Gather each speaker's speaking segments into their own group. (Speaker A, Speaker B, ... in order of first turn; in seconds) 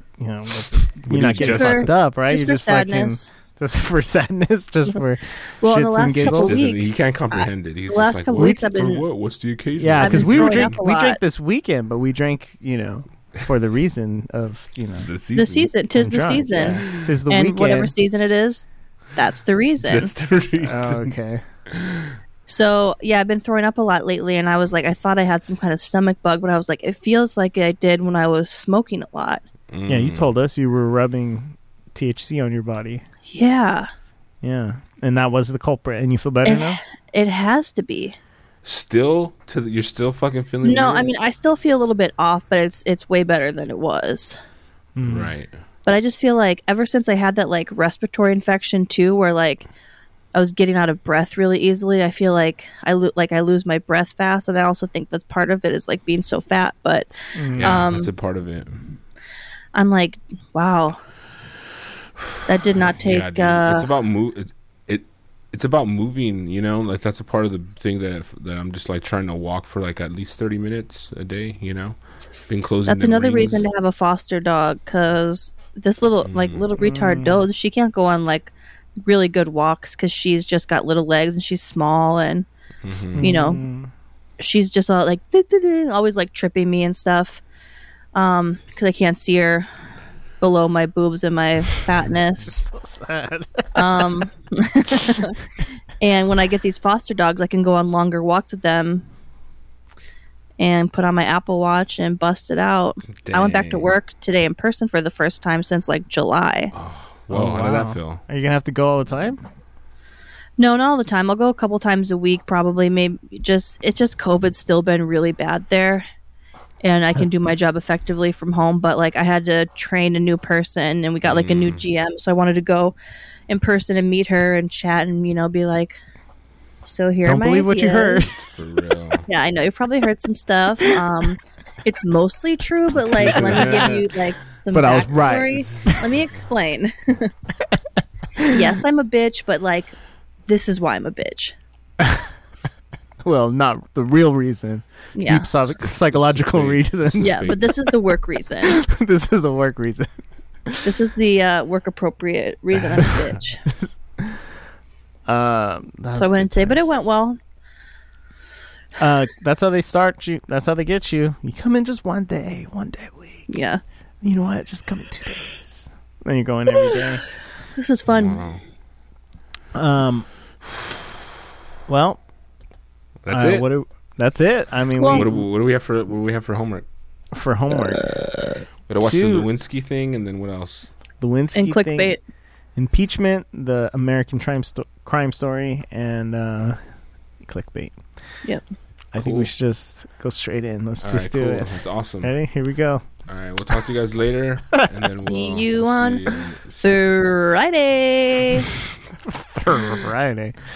Speaker A: 0.2-6.6, 8.3-8.6, 9.8-15.1, 15.9-17.9, 20.6-21.4, 29.9-33.0, 34.4-36.8, 45.0-45.3, 57.3-57.8, 76.8-77.4, 83.1-83.9, 92.4-94.1, 107.3-109.4, 127.2-128.6, 133.0-134.1, 134.7-136.1, 142.0-142.3, 143.2-147.7, 148.6-150.1, 153.0-154.4, 155.3-156.9, 159.0-163.6, 164.2-167.2, 169.7-170.3, 171.9-172.2, 173.3-175.4, 177.3-178.1, 179.0-179.5, 181.2-182.2, 182.8-186.8, 187.4-188.0, 189.1-193.1, 194.7-195.1, 199.2-200.6
Speaker B: 1.0-1.9, 6.2-10.8, 15.0-15.7, 19.8-21.1, 21.7-22.1, 29.7-30.3, 38.6-41.1, 45.0-45.5, 57.6-58.8, 62.9-72.0, 72.5-73.7, 76.2-76.6, 82.8-83.2, 103.2-103.9, 106.7-108.2, 121.2-121.8, 128.5-129.2, 133.3-133.9, 145.8-147.7, 168.1-168.6, 173.2-173.7, 175.1-176.8, 178.9-180.9, 189.2-189.5, 191.0-192.3, 193.3-197.0
Speaker C: 1.4-3.3, 5.6-9.0, 10.0-11.2, 15.3-20.1, 22.5-29.4, 33.3-33.9, 36.4-38.2, 40.6-44.4, 45.9-49.7, 50.3-58.1, 59.7-61.0, 62.5-63.9, 72.9-78.5, 79.0-82.5, 83.2-83.6, 84.4-87.4, 88.1-89.7, 90.4-92.7, 93.7-95.4, 96.0-99.1, 100.6-106.7, 110.6-116.0, 116.8-122.9, 123.5-126.0, 126.8-128.2, 129.3-137.3, 138.5-139.9, 140.5-141.6, 145.2-145.5, 147.2-148.8, 150.8-153.6, 156.1-157.4, 163.5-163.8, 167.8-168.4, 175.0-175.2, 181.5-182.2, 195.2-196.2, 196.8-198.7